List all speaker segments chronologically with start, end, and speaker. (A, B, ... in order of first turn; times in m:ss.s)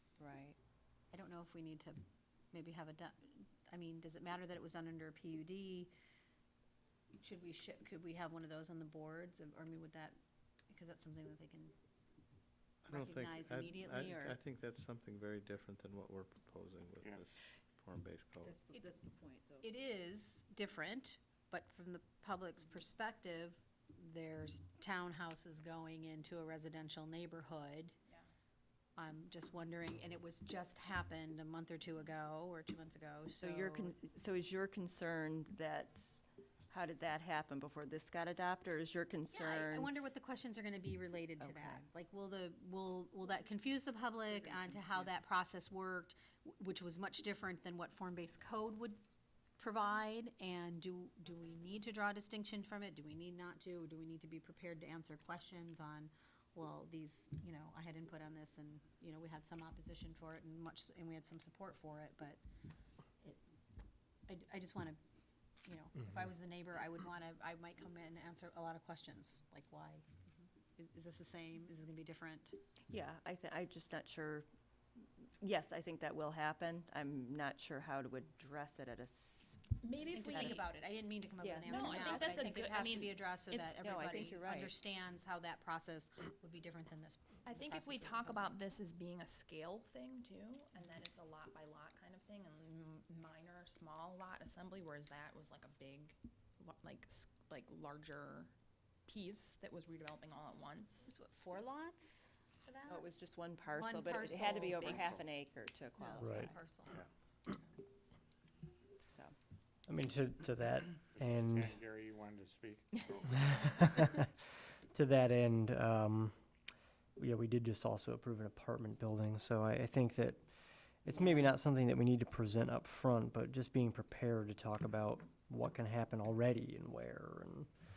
0:00.2-0:00.6 A
0:01.1-0:02.0 B
0:02.5-0:05.9 B
0:07.2-0:10.2 B
0:10.7-0:11.7 B
0:12.8-0:18.6 C
0:12.9-0:14.4 B
0:18.4-0:19.6 A
0:19.6-0:27.9 B
0:29.0-0:34.0 B
0:33.4-0:36.1 A
0:36.7-0:39.9 A
0:39.3-0:49.0 B
0:41.4-0:41.8 A
0:49.6-1:02.4 B
1:04.3-1:05.0 B
1:05.6-1:10.0 B
1:10.8-1:12.5 B
1:12.9-1:14.4 A
1:15.4-1:19.6 A
1:19.8-1:20.6 D
1:20.0-1:28.5 B
1:20.2-1:20.6 A
1:21.4-1:22.5 A
1:21.7-1:23.8 D
1:23.8-1:24.7 A
1:27.4-1:38.5 D
1:39.1-1:41.1 D
1:41.0-1:43.1 B
1:42.9-1:46.6 A
1:43.7-1:45.1 B
1:44.7-1:45.2 E
1:46.0-1:47.0 B
1:46.2-1:46.5 F
1:49.1-1:49.3 A
1:49.9-1:51.8 F
1:51.1-1:53.8 E
1:53.4-1:54.3 F
1:54.9-1:56.3 F
1:57.2-2:07.7 F